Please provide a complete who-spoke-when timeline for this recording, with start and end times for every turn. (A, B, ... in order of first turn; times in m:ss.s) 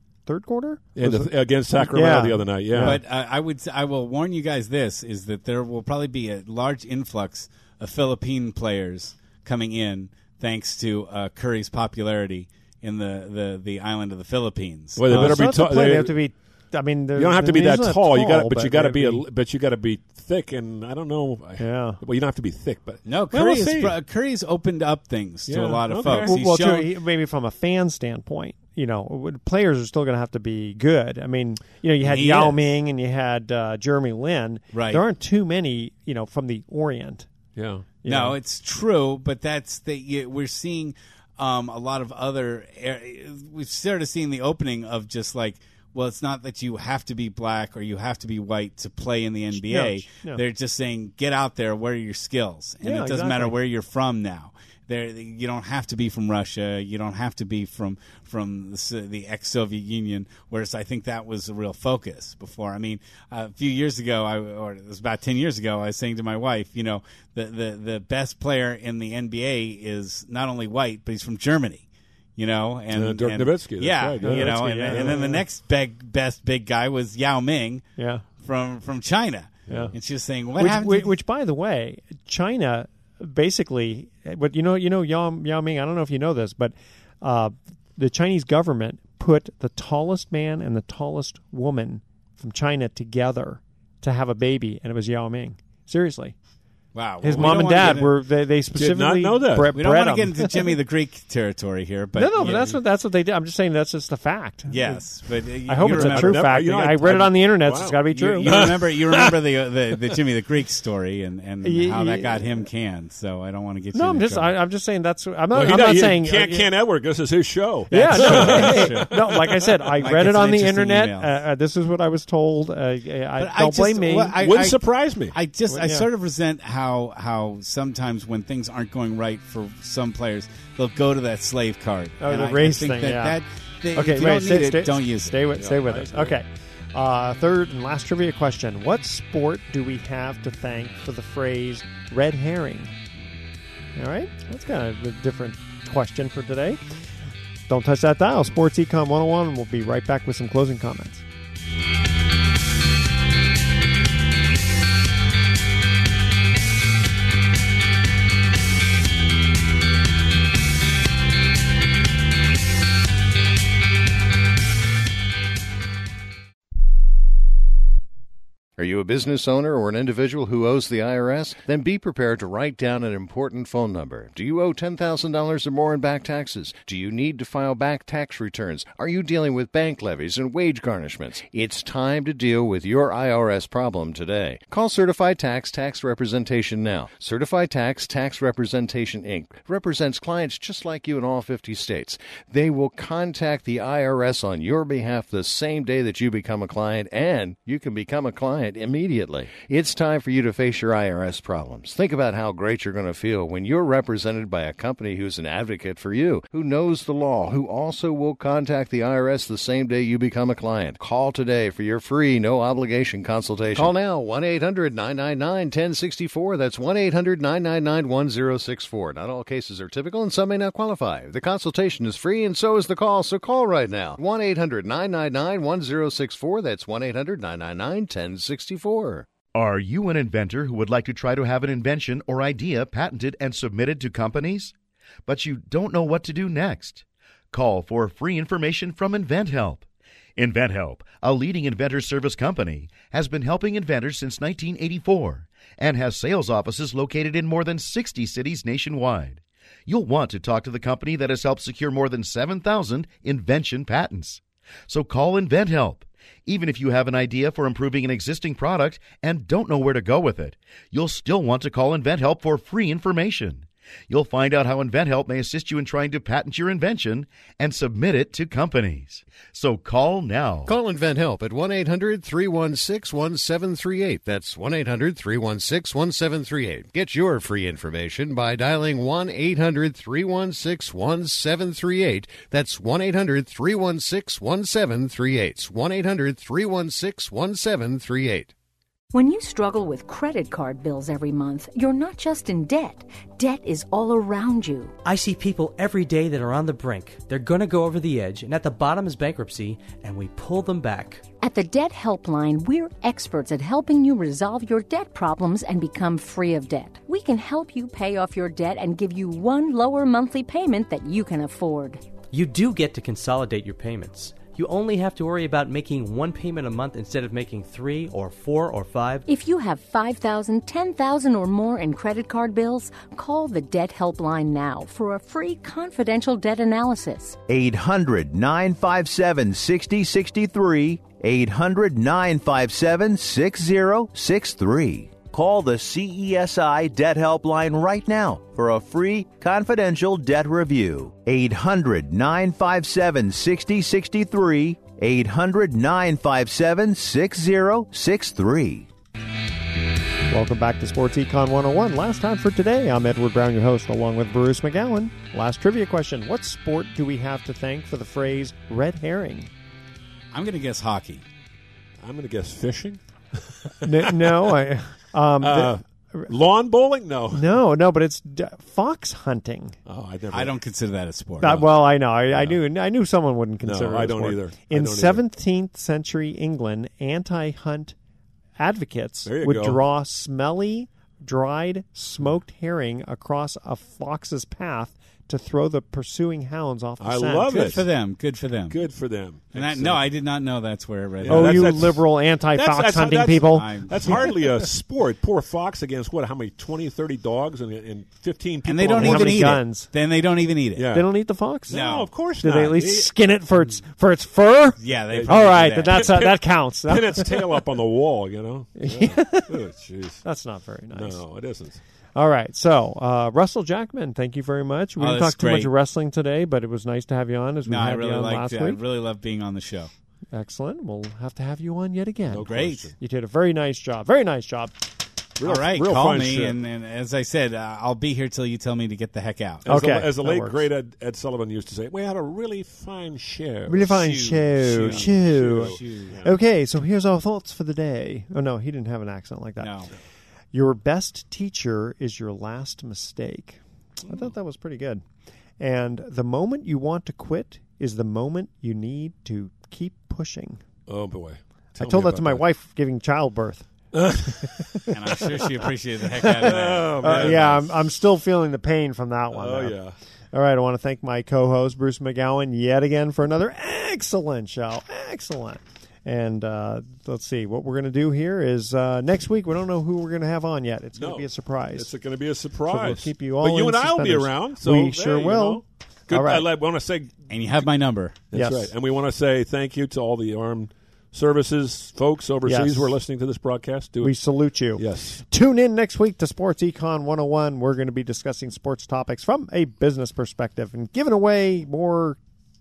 0:00.2-0:03.0 A
0:00.9-0:03.0 B
0:02.8-0:15.7 C
0:15.0-0:16.2 B
0:15.1-0:19.2 A
0:17.1-0:24.0 B
0:21.6-0:22.0 A
0:23.0-0:27.0 C
0:25.5-0:26.5 B
0:26.0-0:37.3 A
0:32.0-0:32.7 C
0:34.7-0:35.0 C
0:37.5-0:37.9 B
0:38.0-0:38.4 A
0:38.0-1:11.8 C
0:49.5-0:50.4 A
0:52.8-0:53.6 A
1:12.4-1:17.8 C
1:12.9-1:15.3 B
1:14.2-1:15.4 A
1:18.0-1:18.2 A
1:18.4-1:21.2 C
1:19.7-1:19.9 B
1:20.6-1:36.4 A
1:36.9-1:38.4 C
1:37.2-1:40.7 A
1:37.3-1:38.1 B
1:38.7-1:39.8 B
1:39.7-1:42.8 C
1:42.2-1:48.7 A
1:44.7-1:47.2 C
1:45.8-1:49.4 B
1:48.0-1:54.6 C
1:51.6-1:52.6 A
1:53.9-1:56.7 A
1:55.5-1:59.6 B
1:57.9-2:04.3 A
1:57.9-2:01.4 C
2:03.4-2:15.7 C
2:04.3-2:05.4 B
2:05.7-2:06.1 A
2:12.2-2:13.4 A
2:14.0-2:22.9 A
2:15.5-2:16.4 B
2:23.9-2:26.8 A
2:27.7-2:31.2 A
2:48.8-3:49.3 D
3:49.5-3:54.7 E
3:55.2-3:59.8 E
4:00.4-4:30.7 E
4:30.6-4:48.5 D
4:49.1-4:54.9 F
4:55.0-5:01.2 G
5:01.4-5:12.0 F
5:12.3-5:19.2 G
5:19.3-5:27.4 F
5:27.5-5:48.9 H
5:50.3-5:59.5 A
6:00.3-6:01.2 C
6:02.0-6:04.5 B
6:03.8-6:06.3 A
6:05.4-6:07.5 B
6:07.3-6:09.8 A
6:09.8-6:10.6 B
6:10.3-6:11.7 C
6:11.4-6:18.0 A
6:11.4-6:11.7 B
6:12.3-6:12.6 B
6:13.6-6:15.2 B
6:18.6-6:27.8 A
6:19.2-6:19.8 B
6:27.0-6:27.8 B
6:27.5-6:28.9 C
6:28.7-6:30.0 B
6:29.5-6:31.9 C
6:31.2-6:39.6 B
6:31.3-6:34.6 A
6:33.4-6:34.5 C
6:38.6-6:41.0 C
6:39.0-6:39.9 A
6:40.8-6:41.1 B
6:40.9-6:41.8 A
6:41.7-6:43.1 B
6:41.7-6:42.2 C
6:42.4-6:47.6 A
6:44.8-6:46.2 C
6:45.1-6:50.2 B
6:48.8-6:49.7 A
6:50.2-6:51.2 A
6:50.9-6:51.8 B
6:52.1-6:58.8 A
6:55.0-6:55.7 C
6:57.6-6:59.9 C
7:00.3-7:04.8 A
7:02.3-7:02.9 B
7:02.4-7:02.9 C
7:05.4-7:06.6 B
7:05.4-7:09.6 C
7:09.6-7:16.3 B
7:09.6-7:10.6 A
7:13.7-7:19.7 A
7:13.9-7:16.4 C
7:19.6-7:19.9 C
7:20.5-7:25.0 A
7:25.6-7:30.6 A
7:30.9-7:32.4 B
7:31.8-7:33.7 A
7:33.9-7:34.8 B
7:34.4-7:34.9 A
7:34.9-7:37.6 C
7:36.2-7:37.7 B
7:36.3-7:39.8 A
7:39.3-7:40.0 B
7:40.3-7:51.9 A
7:51.0-7:57.2 B
7:52.7-7:56.5 A
7:57.3-7:58.2 C
7:58.3-8:04.1 B
7:58.3-7:58.7 A
8:02.4-8:03.0 A
8:04.0-8:12.2 A
8:04.8-8:05.2 B